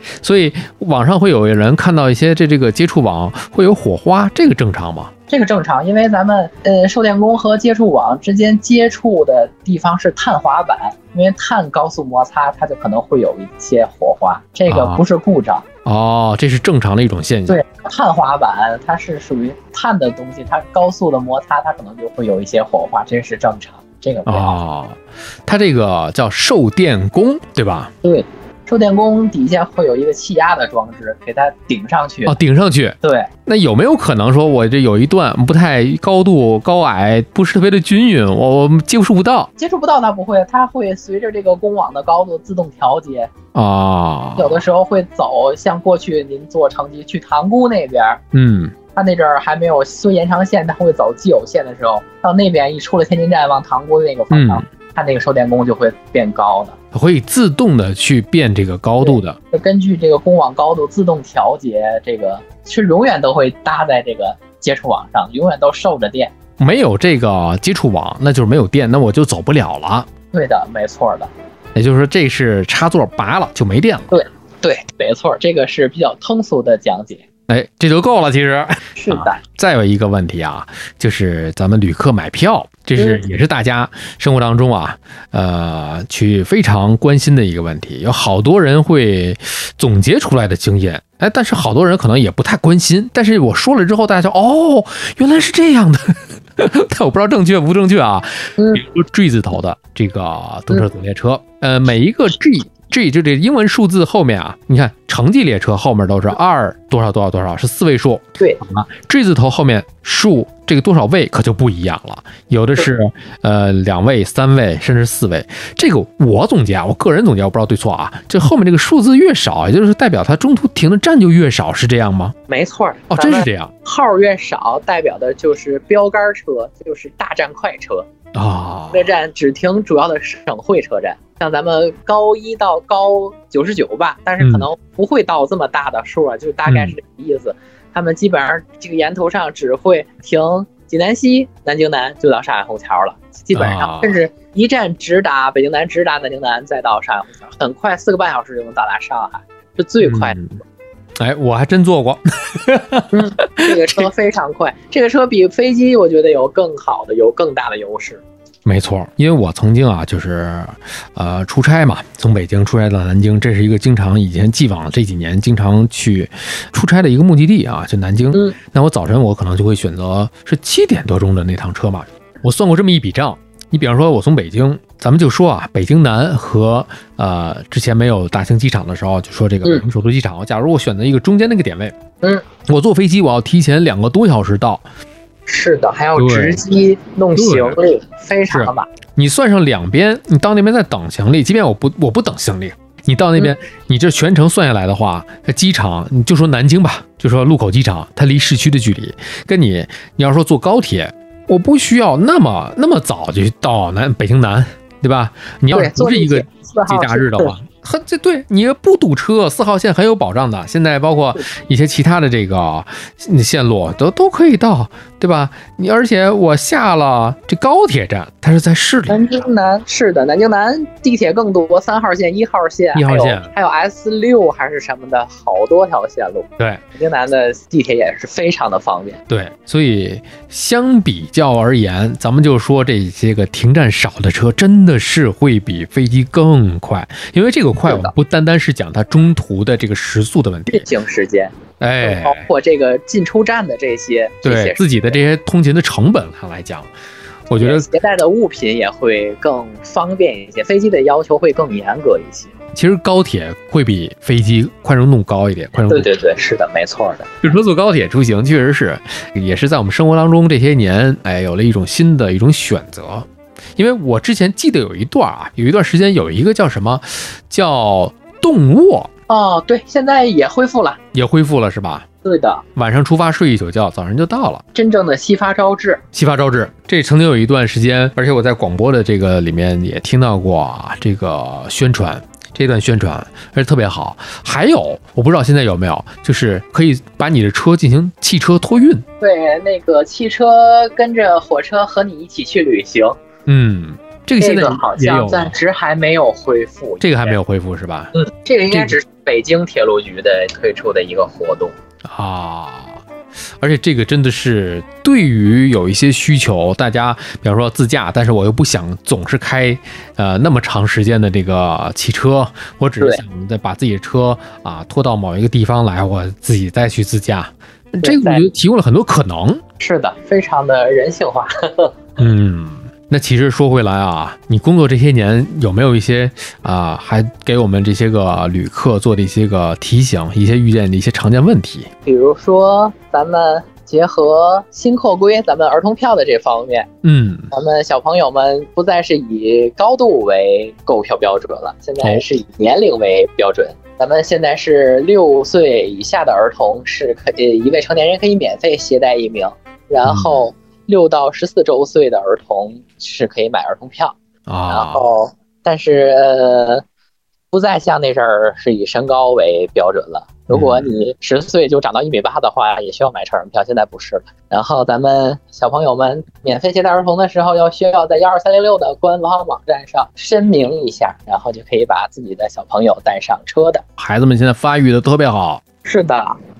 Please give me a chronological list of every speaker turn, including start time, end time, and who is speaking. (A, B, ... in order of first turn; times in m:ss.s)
0:00.2-0:05.1 A
0:05.3-0:15.6 B
0:14.7-0:15.0 A
0:15.8-0:17.6 A
0:17.5-0:24.6 B
0:24.2-0:27.9 A
0:28.0-0:32.4 B
0:32.2-0:39.5 A
0:33.0-0:33.3 B
0:39.6-0:43.3 B
0:43.5-0:44.6 A
0:44.4-0:48.2 B
0:48.3-0:48.7 A
0:48.9-0:56.8 B
0:54.3-0:54.6 A
0:56.9-0:59.4 A
0:59.0-1:06.3 B
1:06.6-1:10.1 A
1:10.3-1:11.3 B
1:11.7-1:14.1 A
1:14.1-1:17.2 B
1:17.5-2:02.4 A
1:19.0-1:19.4 B
1:23.0-1:23.2 B
1:38.6-1:38.8 B
2:02.5-2:08.1 B
2:03.1-2:03.7 A
2:08.3-2:09.1 A
2:08.9-2:30.4 B
2:14.4-2:14.7 A
2:16.6-2:16.9 A
2:23.5-2:24.2 A
2:30.0-2:30.6 A
2:31.2-2:34.1 A
2:33.1-2:38.2 B
2:38.6-3:01.9 A
3:02.6-3:04.8 A
3:05.5-3:08.9 B
3:06.2-3:06.6 A
3:07.3-3:07.8 A
3:08.5-3:39.3 A
3:25.7-3:27.5 B
3:39.1-3:49.2 B
3:42.9-3:43.5 A
3:49.3-4:00.9 A
3:57.9-3:58.1 B
4:00.7-4:05.2 B
4:01.8-4:02.5 A
4:04.4-4:06.9 A
4:07.5-4:07.9 A
4:07.6-4:12.5 B
4:12.7-4:16.1 A
4:15.9-4:17.4 B
4:17.4-4:29.1 A
4:29.3-4:31.0 B
4:31.1-4:32.0 A
4:32.2-4:32.6 B
4:32.8-4:34.6 A
4:34.7-4:36.0 B
4:36.1-4:49.0 A
4:49.2-4:53.2 B
4:53.4-4:55.6 A
4:54.4-4:57.4 B
4:57.0-4:58.1 A
4:58.1-5:01.7 B
4:58.7-4:59.0 A
5:02.0-5:03.0 A
5:03.6-5:19.6 A
5:18.0-5:18.4 B
5:19.8-5:21.9 B
5:22.2-5:31.9 A
5:32.0-5:36.9 B
5:37.0-5:37.5 A
5:37.5-5:56.8 B
5:50.0-5:50.4 A
5:54.4-5:55.0 A
5:57.5-6:13.8 B
6:00.5-6:00.9 A
6:14.0-6:15.6 A
6:15.8-6:16.4 B